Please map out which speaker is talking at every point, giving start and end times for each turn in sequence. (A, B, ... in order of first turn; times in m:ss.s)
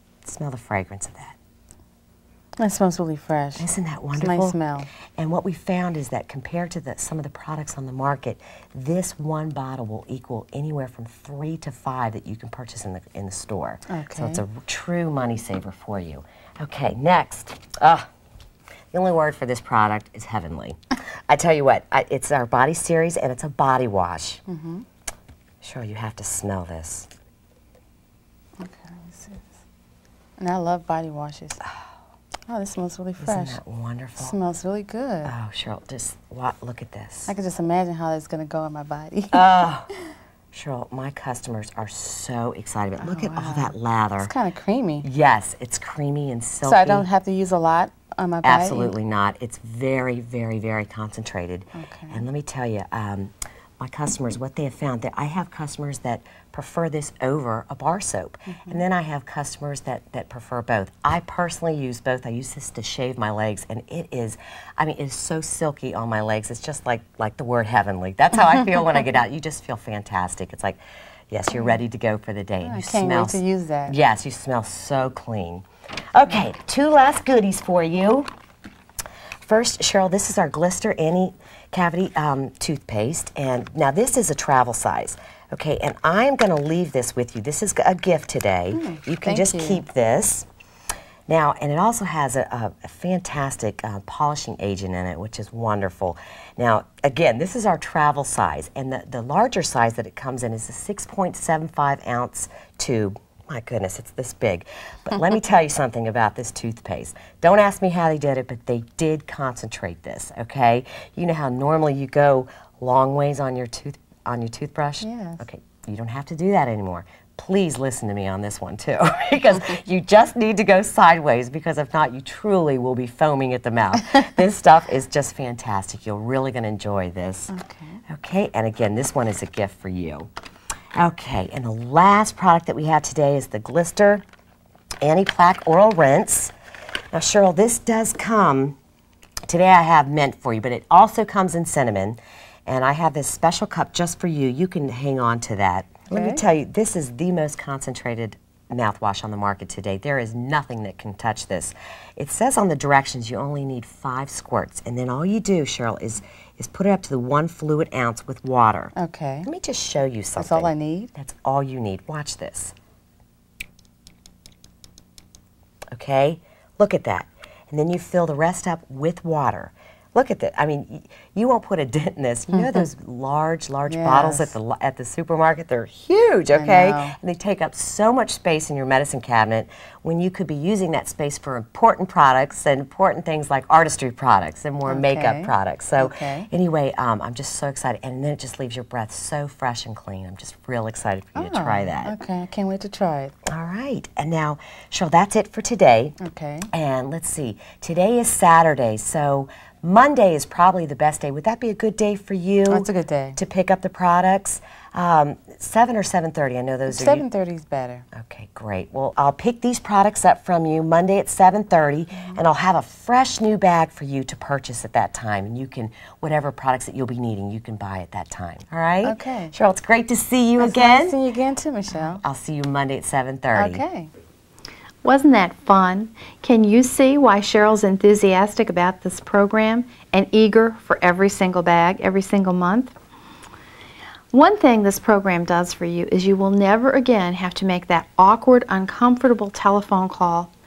0:00.2-0:01.4 A
0:02.6-0:04.9 B
0:03.6-0:04.6 A
0:05.2-0:18.1 A
0:13.9-0:14.4 B
0:18.9-0:20.8 A
0:21.3-0:24.4 A
0:24.5-0:24.8 B
0:25.6-0:27.1 A
0:28.6-0:29.4 B
0:30.4-0:31.6 B
0:32.5-0:33.6 B
0:33.2-0:34.3 A
0:34.2-0:35.3 B
0:35.2-0:37.3 A
0:37.3-0:39.6 B
0:39.3-0:39.9 A
0:40.5-0:44.3 A
0:43.0-0:45.1 B
0:45.0-0:47.1 A
0:46.6-0:48.9 B
0:48.4-1:18.3 A
0:51.7-0:52.2 B
0:58.5-0:58.8 B
1:12.6-1:14.0 B
1:19.4-1:30.5 A
1:28.7-1:29.8 B
1:31.3-2:07.5 A
1:55.0-1:55.4 B
2:07.5-2:08.0 B
2:08.1-2:10.3 A
2:11.0-2:14.2 A
2:15.0-2:16.5 A
2:17.1-2:18.8 A
2:19.5-2:38.9 A
2:26.1-2:26.4 B
2:38.9-2:39.5 B
2:39.4-2:42.7 A
2:40.4-2:41.1 B
2:45.9-3:12.2 A
2:52.5-2:52.9 B
2:53.9-2:54.5 B
2:56.5-2:57.2 B
3:04.8-3:06.5 B
3:11.4-3:13.3 B
3:13.5-3:16.2 A
3:16.2-3:16.7 B
3:16.7-3:27.2 A
3:22.7-3:23.4 B
3:26.9-3:28.0 B
3:28.1-3:41.2 A
3:32.1-3:32.4 B
3:39.0-3:39.5 B
3:40.6-3:42.2 B
3:42.0-3:43.8 A
3:43.5-3:44.1 B
3:45.0-3:52.9 C
3:54.3-4:00.5 C